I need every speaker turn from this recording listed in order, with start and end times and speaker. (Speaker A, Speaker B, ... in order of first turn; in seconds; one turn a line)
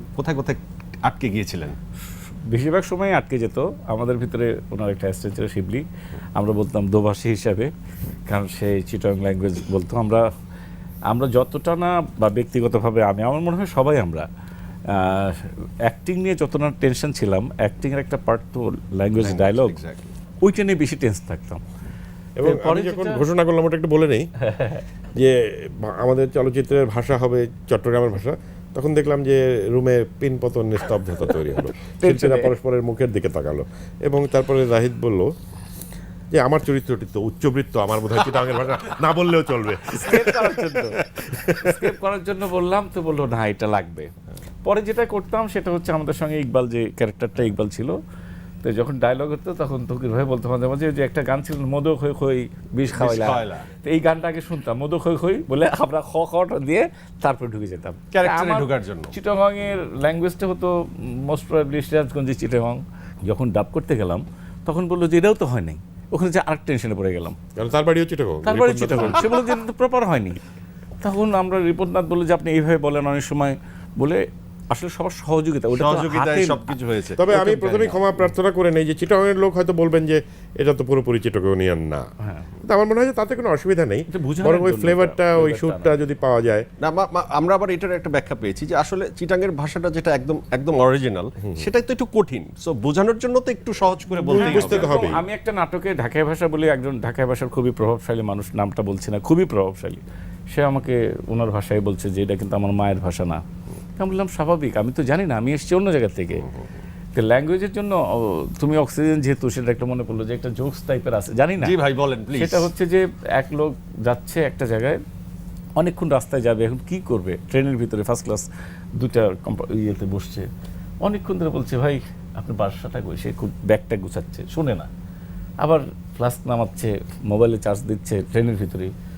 Speaker A: 0.1-1.8
Speaker B: 2.5-5.8
Speaker B: 6.4-7.7
Speaker B: 8.3-10.3
Speaker B: 11.1-14.2
Speaker B: 14.9-19.8
Speaker A: 19.2-20.1
Speaker B: 20.4-21.6
Speaker C: 22.4-24.3
Speaker B: 22.4-23.2
Speaker B: 24.4-24.8
Speaker C: 25.1-35.3
Speaker B: 32.0-32.5
Speaker C: 36.3-41.8
Speaker B: 39.9-44.1
Speaker B: 44.6-48.0
Speaker B: 48.6-67.4
Speaker A: 52.9-53.7
Speaker A: 58.1-59.1
Speaker C: 67.6-69.4
Speaker B: 68.4-70.4
Speaker B: 71.0-76.7
Speaker A: 75.7-78.3
Speaker C: 77.2-82.0
Speaker B: 82.2-82.5
Speaker C: 82.6-86.7
Speaker B: 84.1-86.0
Speaker A: 86.8-95.0
Speaker B: 94.2-100.0
Speaker C: 94.3-95.2
Speaker B: 100.5-103.4
Speaker B: 104.0-106.4
Speaker B: 107.1-111.8
Speaker A: 111.6-112.7
Speaker B: 112.3-115.0
Speaker B: 115.8-120.5
Speaker B: 121.0-124.9
Speaker B: 125.6-128.9